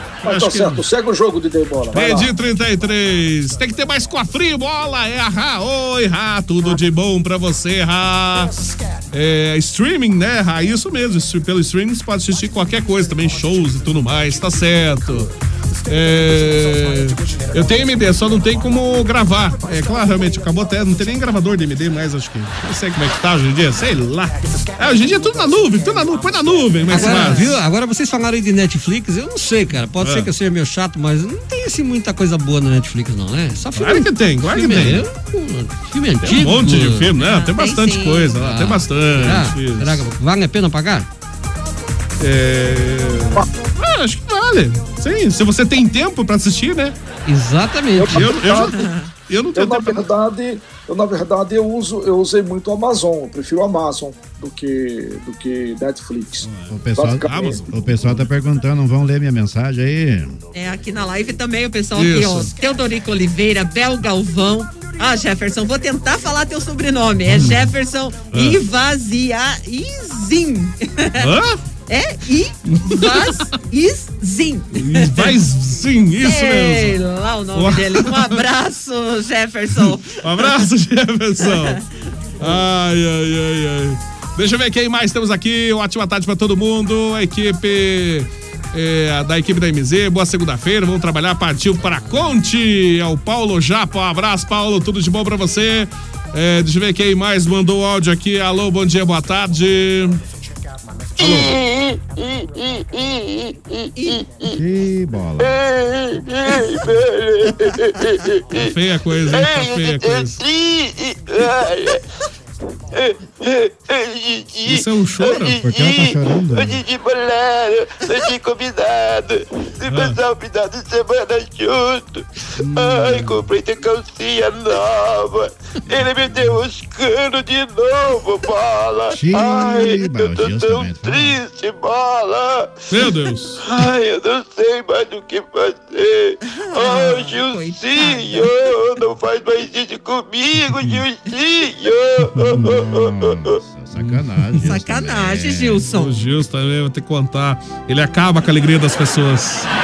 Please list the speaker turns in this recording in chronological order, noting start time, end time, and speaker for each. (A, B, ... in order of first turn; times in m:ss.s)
0:00.2-0:00.8 A
0:00.2-0:02.3 B
0:01.9-0:15.3 A
0:15.9-0:27.6 A
0:26.9-0:37.1 C
0:27.0-0:27.5 D
0:30.0-0:30.3 A
0:33.8-0:35.0 A
0:36.2-0:40.0 A
0:37.2-0:38.4 D
0:38.4-0:41.1 C
0:42.2-0:47.0 A
0:47.3-0:48.3 C
0:48.0-0:48.7 B
0:48.1-0:48.8 A
0:48.5-0:49.1 D
0:49.3-0:50.0 A
0:49.6-0:57.6 B
0:56.4-0:58.2 A
0:56.7-1:00.4 E
1:00.5-1:11.3 D
1:02.0-1:02.5 A
1:07.3-1:07.7 A
1:08.3-1:08.6 A
1:11.2-1:11.6 A
1:11.9-1:15.4 D
1:12.7-1:13.4 A
1:14.8-1:17.0 A
1:16.2-1:20.6 D
1:17.5-1:18.4 A
1:20.2-1:21.8 A
1:21.4-1:21.8 D
1:22.4-1:40.2 A
1:41.2-1:44.6 F
1:41.2-1:41.5 A
1:44.6-1:45.5 E
1:45.4-1:52.0 F
1:48.6-1:50.4 A
1:52.9-2:23.6 F
1:54.7-1:55.6 A
1:55.6-1:56.8 E
1:59.9-2:00.2 A
2:02.6-2:03.4 A
2:09.1-2:11.4 E
2:12.9-2:13.6 A
2:16.5-2:18.4 D
2:20.7-2:21.0 A
2:22.3-2:22.6 A
2:22.6-2:25.9 E
2:24.0-2:24.6 A
2:24.6-2:26.2 D
2:25.9-2:29.7 A